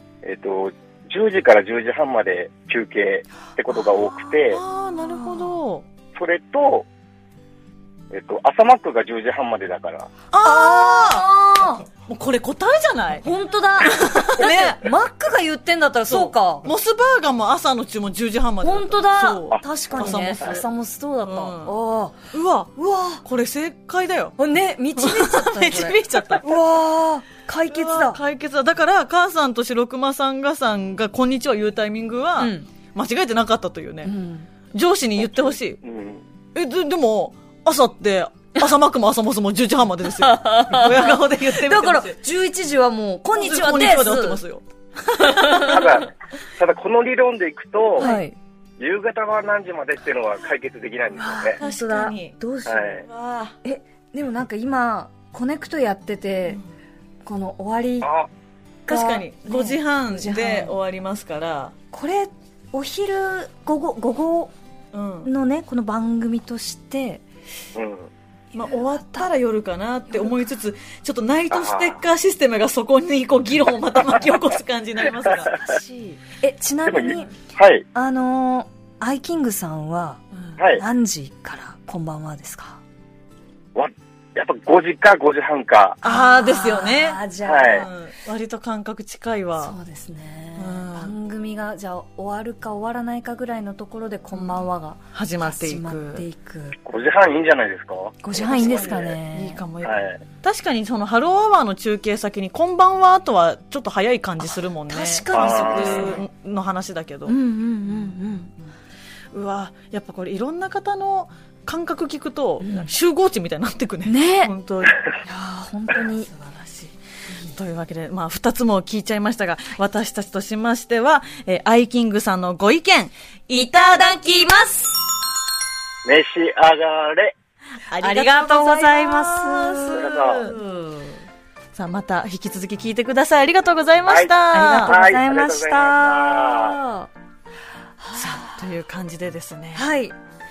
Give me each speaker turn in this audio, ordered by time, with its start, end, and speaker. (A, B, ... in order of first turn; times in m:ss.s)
0:00.2-0:04.6 A
0:03.7-0:04.3 B
0:04.5-0:05.9 C
0:05.0-0:05.6 B
0:06.2-0:06.9 A
0:08.1-0:10.1 A
0:10.3-0:11.3 C
0:10.4-0:11.9 B
0:12.0-0:13.3 C
0:13.2-0:16.7 B
0:13.8-0:14.8 C
0:16.1-0:20.7 C
0:18.6-0:23.2 B
0:21.2-0:21.7 C
0:22.3-0:24.4 C
0:24.4-0:28.2 B
0:25.0-0:26.5 C
0:27.7-0:34.1 C
0:32.4-0:32.7 B
0:34.0-0:34.5 B
0:34.7-0:35.8 C
0:35.8-0:36.2 A
0:36.5-0:42.2 C
0:40.2-0:44.4 B
0:43.3-0:46.0 C
0:45.1-0:45.8 B
0:45.6-0:48.1 A
0:48.0-0:48.4 B
0:48.8-0:51.6 A
0:51.2-0:53.0 B
0:51.6-0:53.6 C
0:52.7-0:53.0 A
0:53.6-0:56.6 B
0:57.2-0:58.1 B
0:58.0-0:58.3 A
0:58.9-1:00.7 B
0:58.9-1:01.7 C
1:01.9-1:04.5 B
1:04.9-1:05.3 C
1:05.2-1:07.2 B
1:07.8-1:08.1 A
1:08.5-1:15.6 C
1:08.6-1:09.3 B
1:10.1-1:10.5 B
1:11.5-1:12.0 A
1:15.5-1:17.3 B
1:16.9-1:17.8 A
1:17.9-1:20.2 B
1:20.6-1:20.8 A
1:20.8-1:22.8 B
1:23.8-1:26.0 A
1:26.0-1:29.8 C
1:26.0-1:27.9 B
1:27.4-1:27.8 A
1:29.6-1:36.8 B
1:30.6-1:31.2 C
1:34.3-1:34.6 C
1:35.1-1:36.2 C
1:36.9-1:39.2 A
1:38.2-1:39.7 B
1:38.4-1:47.4 C
1:39.8-1:40.2 A
1:44.5-1:46.2 B
1:45.3-1:46.2 A
1:47.3-1:48.5 B
1:49.3-1:55.0 C
1:52.6-1:52.9 B
1:54.1-1:54.5 B
1:55.2-1:56.3 B
1:56.3-1:56.9 C
1:57.5-2:03.6 C
2:03.5-2:05.0 B
2:06.0-2:07.3 A
2:07.9-2:11.2 C
2:08.0-2:10.5 B
2:09.9-2:10.4 A
2:11.7-2:15.0 C
2:14.1-2:16.8 A
2:14.5-2:17.1 B
2:18.0-2:18.6 B
2:18.2-2:19.9 C
2:19.8-2:20.1 B